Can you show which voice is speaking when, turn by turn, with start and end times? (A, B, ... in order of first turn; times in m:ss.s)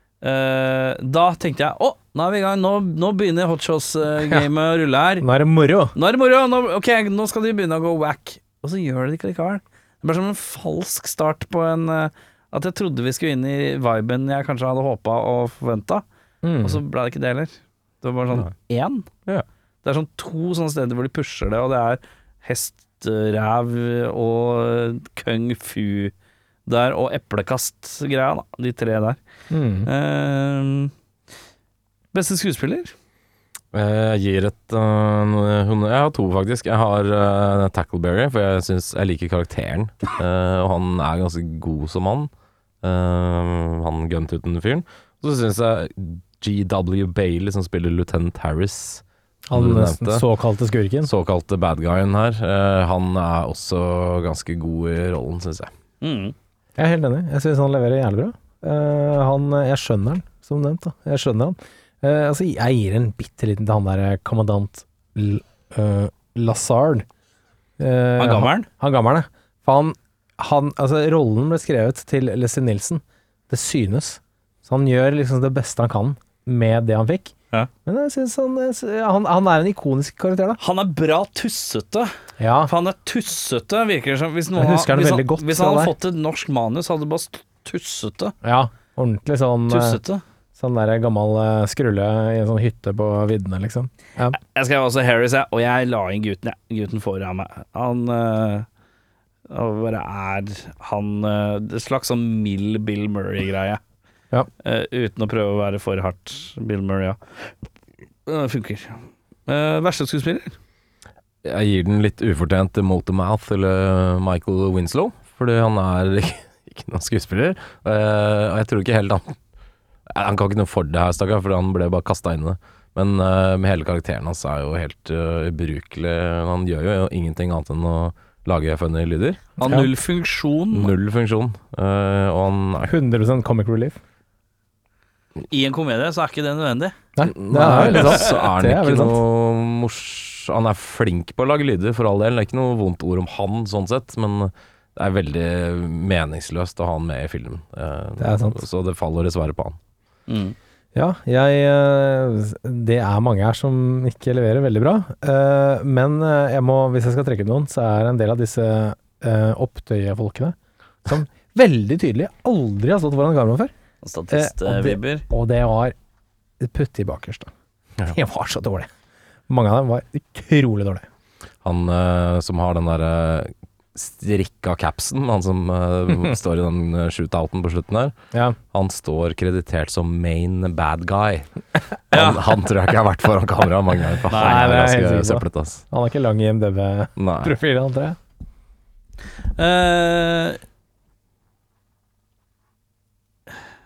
0:00.2-0:05.2 A
0:05.2-0:05.9 B
0:05.9-0:16.0 A
0:16.4-0:16.8 B
0:16.6-0:19.1 A
0:19.8-0:26.1 A
0:26.7-0:29.2 A
0:29.5-0:29.9 B
0:29.8-0:30.9 A
0:32.1-0:32.9 A
0:33.7-0:42.3 C
0:42.8-0:50.2 C
0:49.5-0:51.1 B
0:51.0-0:55.7 C
0:56.0-0:56.3 A
0:56.8-1:07.0 B
1:07.8-1:17.3 B
1:08.2-1:08.7 A
1:17.8-1:20.6 B
1:20.6-1:22.1 A
1:22.4-1:22.7 B
1:22.6-1:28.3 A
1:24.6-1:25.9 B
1:28.4-1:30.0 B
1:29.7-1:30.2 A
1:30.6-1:34.4 B
1:34.3-1:38.7 A
1:39.5-1:43.8 A
1:44.6-1:47.5 A
1:48.2-1:50.5 A
1:51.4-1:59.4 C
2:00.1-2:09.7 C
2:09.6-2:09.9 B
2:09.6-2:10.9 A
2:10.7-2:12.9 C
2:12.8-2:14.0 B
2:15.5-2:17.0 A
2:17.2-2:19.2 B
2:17.2-2:29.8 C
2:17.7-2:18.3 A
2:28.2-2:28.6 B
2:30.3-2:30.6 A
2:30.9-2:43.7 B
2:44.0-2:45.2 A
2:44.3-2:45.9 B
2:46.6-2:47.5 B
2:48.0-2:48.9 B
2:49.5-2:51.0 B
2:51.6-2:58.1 C
2:58.7-3:01.5 C
3:02.1-3:05.8 C
3:02.1-3:02.5 A
3:04.3-3:04.7 A
3:04.3-3:08.2 B
3:07.2-3:07.5 C
3:09.6-3:10.6 A